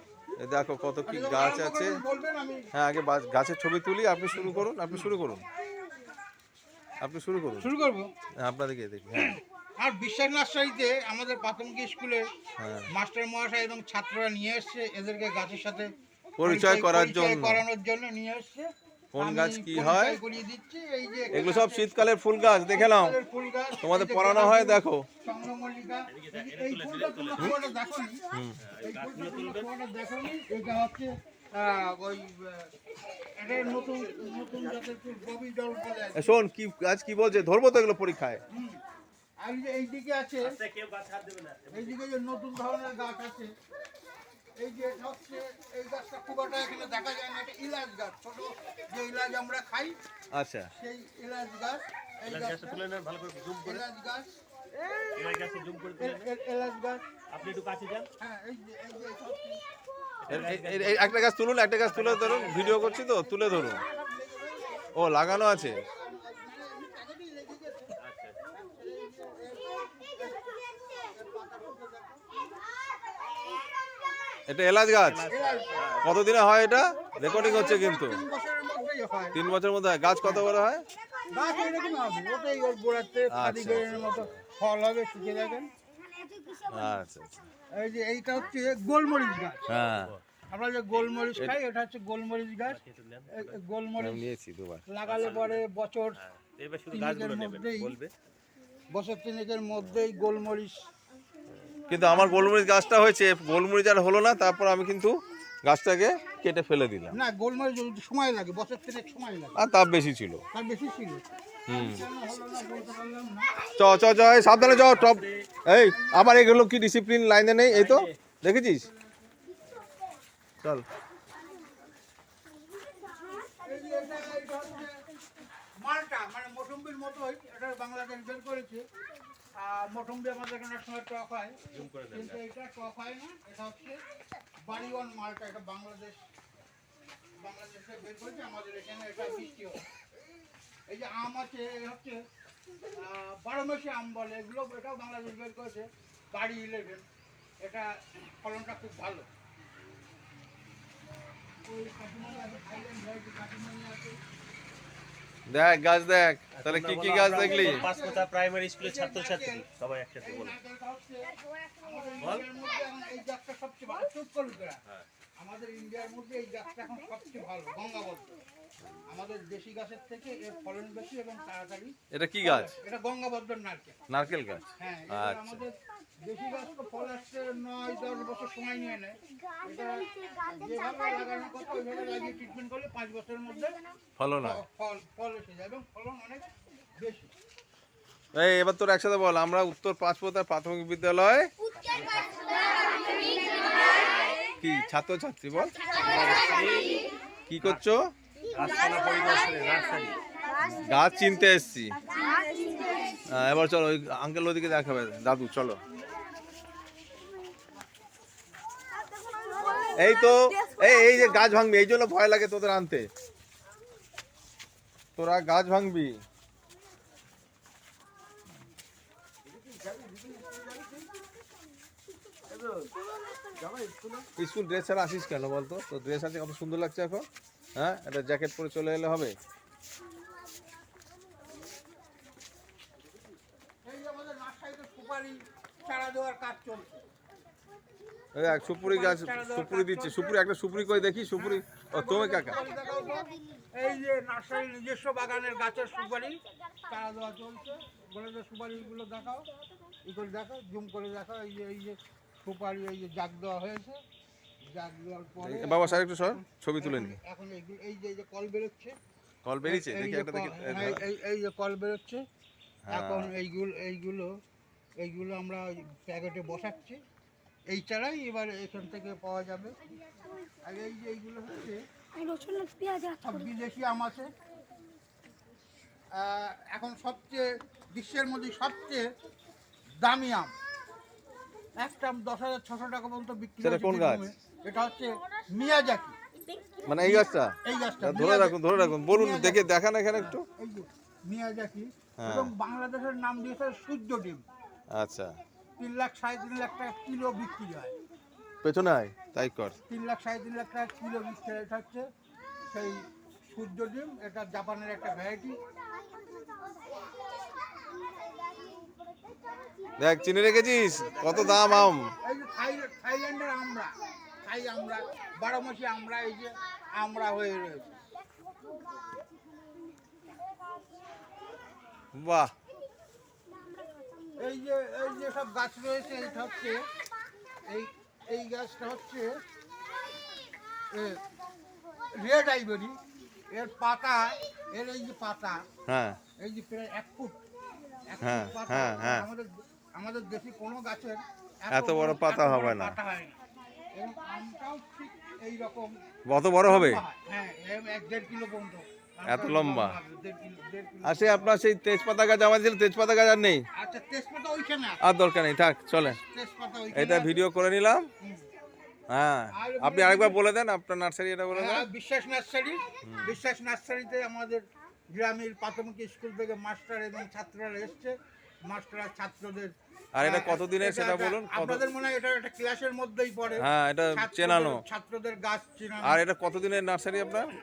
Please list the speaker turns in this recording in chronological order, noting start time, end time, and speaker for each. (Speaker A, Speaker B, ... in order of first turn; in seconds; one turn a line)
Speaker A: 0.4-2.0
Speaker B: 1.1-2.6
Speaker A: 2.7-5.5
Speaker B: 4.3-5.1
Speaker A: 7.0-7.7
Speaker B: 7.6-8.1
Speaker A: 8.4-9.4
Speaker B: 9.2-12.3
Speaker A: 12.6-12.9
Speaker B: 12.9-15.9
Speaker A: 16.4-17.6
Speaker B: 16.4-22.1
Speaker A: 19.1-20.2
Speaker A: 21.3-23.2
Speaker B: 22.7-28.2
Speaker A: 23.8-25.1
Speaker C: 26.1-27.6
Speaker A: 28.3-28.6
Speaker C: 28.6-29.7
Speaker B: 28.8-32.7
Speaker B: 33.4-36.3
Speaker A: 36.2-38.4
Speaker B: 38.5-38.8
Speaker B: 39.4-40.5
Speaker C: 40.5-42.0
Speaker B: 41.7-43.5
Speaker B: 44.6-50.0
Speaker A: 50.4-50.7
Speaker B: 50.7-52.8
Speaker C: 52.3-53.8
Speaker B: 53.6-54.3
Speaker C: 55.1-56.3
Speaker B: 56.0-57.0
Speaker C: 57.3-58.1
Speaker B: 58.2-59.6
Speaker C: 60.2-61.2
Speaker A: 60.3-63.8
Speaker C: 61.8-63.0
Speaker B: 62.5-67.9
Speaker A: 65.0-65.8
Speaker C: 68.0-68.4
Speaker B: 68.5-72.3
Speaker A: 74.5-75.3
Speaker C: 75.0-76.2
Speaker B: 75.3-75.8
Speaker A: 76.0-78.2
Speaker B: 77.2-79.4
Speaker A: 79.3-80.8
Speaker B: 81.3-85.7
Speaker A: 83.3-84.2
Speaker D: 86.1-86.9
Speaker A: 86.7-87.5
Speaker B: 87.7-89.7
Speaker A: 89.7-90.2
Speaker B: 90.5-94.3
Speaker C: 92.7-93.6
Speaker A: 94.0-94.8
Speaker B: 94.9-96.2
Speaker C: 95.1-95.6
Speaker C: 96.2-98.1
Speaker B: 96.9-98.0
Speaker B: 98.9-100.8
Speaker A: 101.9-107.2
Speaker B: 102.0-102.5
Speaker B: 107.1-109.7
Speaker A: 109.6-110.4
Speaker B: 110.5-113.5
Speaker A: 111.7-112.0
Speaker A: 113.8-118.9
Speaker C: 114.8-115.5
Speaker B: 116.0-116.3
Speaker C: 117.7-118.2
Speaker B: 123.5-125.0
Speaker B: 125.8-128.8
Speaker B: 129.6-134.0
Speaker C: 131.7-132.4
Speaker B: 134.7-136.2
Speaker B: 137.4-139.8
Speaker B: 140.9-142.2
Speaker B: 143.0-147.1
Speaker B: 147.6-149.3
Speaker B: 151.7-154.2
Speaker A: 155.5-157.8
Speaker C: 156.5-160.6
Speaker B: 157.3-158.3
Speaker B: 158.8-159.7
Speaker B: 160.2-164.8
Speaker B: 165.4-168.3
Speaker B: 169.1-174.1
Speaker A: 172.1-172.8
Speaker A: 174.1-175.6
Speaker B: 174.7-183.8
Speaker D: 180.1-180.8
Speaker A: 184.2-184.6
Speaker B: 184.4-187.3
Speaker A: 188.3-191.5
Speaker C: 191.8-192.4
Speaker D: 193.3-193.6
Speaker A: 194.6-195.8
Speaker C: 196.0-197.1
Speaker A: 197.5-198.1
Speaker C: 198.5-200.2
Speaker D: 200.5-200.8
Speaker A: 200.8-202.0
Speaker D: 202.1-203.2
Speaker A: 203.3-205.8
Speaker D: 209.3-210.9
Speaker A: 209.9-213.1
Speaker A: 215.2-216.2
Speaker C: 219.6-221.0
Speaker C: 222.6-222.9
Speaker D: 223.1-223.6
Speaker C: 223.6-224.3
Speaker A: 224.4-229.3
Speaker B: 233.8-237.0
Speaker A: 238.3-242.7
Speaker B: 238.6-240.5
Speaker B: 241.2-249.5
Speaker B: 250.1-254.0
Speaker B: 254.7-258.9
Speaker A: 255.4-257.2
Speaker A: 259.4-261.0
Speaker B: 259.7-262.2
Speaker A: 262.9-263.3
Speaker B: 262.9-264.3
Speaker B: 265.0-267.0
Speaker B: 267.7-269.8
Speaker B: 270.6-271.8
Speaker D: 272.2-273.3
Speaker B: 273.2-274.3
Speaker B: 276.1-279.1
Speaker B: 280.0-280.5
Speaker B: 281.8-286.1
Speaker A: 283.6-284.3
Speaker D: 286.5-286.9
Speaker A: 286.9-290.4
Speaker B: 287.0-294.4
Speaker A: 292.2-292.5
Speaker A: 294.9-295.4
Speaker B: 295.8-297.9
Speaker A: 298.6-299.8
Speaker B: 299.9-302.1
Speaker B: 302.7-305.6
Speaker D: 305.9-307.6
Speaker D: 308.1-309.9
Speaker A: 310.0-312.1
Speaker C: 311.0-311.6
Speaker B: 311.2-318.0
Speaker D: 318.6-319.3
Speaker A: 322.1-322.5
Speaker B: 324.4-326.8
Speaker B: 327.7-329.3
Speaker B: 330.9-331.2
Speaker B: 332.1-333.0
Speaker B: 333.5-335.6
Speaker A: 335.9-336.2
Speaker B: 336.4-337.4
Speaker B: 338.1-343.4
Speaker A: 338.2-339.3
Speaker A: 341.7-343.0
Speaker B: 343.9-345.9
Speaker A: 346.3-347.0
Speaker B: 346.6-351.6
Speaker A: 349.3-350.0
Speaker A: 351.1-353.7
Speaker B: 353.8-355.1
Speaker A: 355.0-356.2
Speaker B: 356.0-357.4
Speaker A: 356.9-358.1
Speaker A: 359.1-361.9
Speaker B: 359.5-360.4
Speaker B: 361.5-368.1
Speaker A: 363.0-363.3
Speaker B: 368.7-376.2
Speaker A: 370.1-371.8
Speaker A: 373.6-374.8
Speaker A: 376.1-377.5